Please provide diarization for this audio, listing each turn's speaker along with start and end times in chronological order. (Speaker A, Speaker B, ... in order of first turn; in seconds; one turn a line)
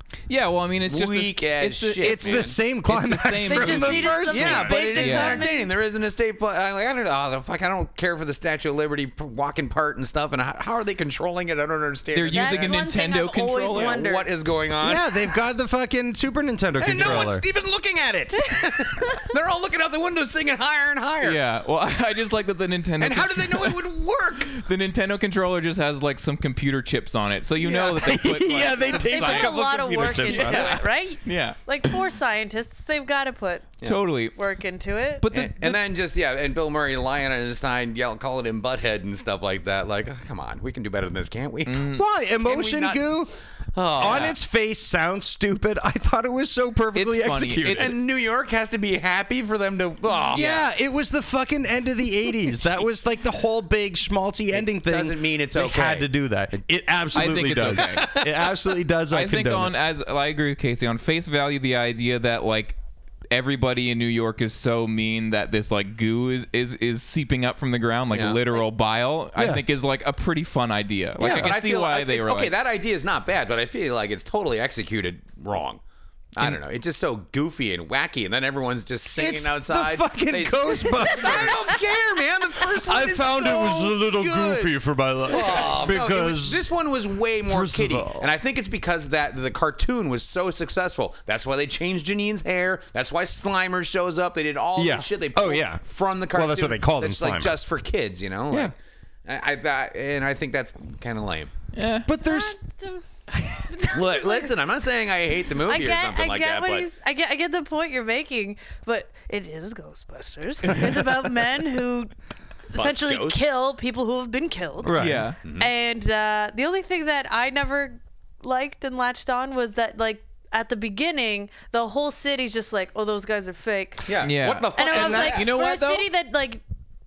Speaker A: 0.3-5.5
Speaker B: 0.9-2.5
Speaker C: 2.0-4.8
Speaker D: 3.5-5.7
Speaker B: 4.3-12.8
Speaker A: 12.1-14.0
Speaker D: 12.3-14.3
Speaker B: 13.7-15.2
Speaker C: 14.8-17.4
Speaker B: 16.8-21.4
Speaker A: 17.0-17.3
Speaker D: 18.4-19.3
Speaker A: 21.2-29.5
Speaker B: 23.0-24.6
Speaker B: 27.6-29.3
Speaker C: 27.9-30.8
Speaker D: 29.1-33.8
Speaker A: 30.2-31.6
Speaker A: 33.8-34.3
Speaker D: 34.3-35.3
Speaker A: 35.2-35.8
Speaker B: 35.3-43.1
Speaker A: 41.7-42.0
Speaker C: 41.9-43.3
Speaker B: 43.7-44.3
Speaker C: 43.9-47.9
Speaker A: 44.0-44.4
Speaker A: 46.9-47.9
Speaker B: 47.7-50.7
Speaker C: 50.3-59.7
Speaker B: 54.5-56.1
Speaker A: 57.1-58.1
Speaker B: 57.3-58.6
Speaker A: 59.1-62.8
Speaker A: 63.3-72.5
Speaker B: 68.1-68.4
Speaker C: 69.4-69.6
Speaker B: 71.2-75.8
Speaker C: 71.2-71.5
Speaker B: 76.3-101.5
Speaker C: 79.1-81.8
Speaker C: 82.7-86.7
Speaker C: 87.4-88.3
Speaker C: 94.8-97.6
Speaker A: 101.7-102.1
Speaker C: 102.0-102.6
Speaker D: 102.2-104.5
Speaker B: 103.9-106.9
Speaker D: 105.6-112.1
Speaker D: 112.7-124.1
Speaker B: 112.7-113.5
Speaker C: 114.8-115.3
Speaker A: 114.9-115.4
Speaker B: 115.4-115.7
Speaker B: 124.1-125.5
Speaker A: 124.2-126.1
Speaker D: 124.7-126.6
Speaker C: 124.9-125.5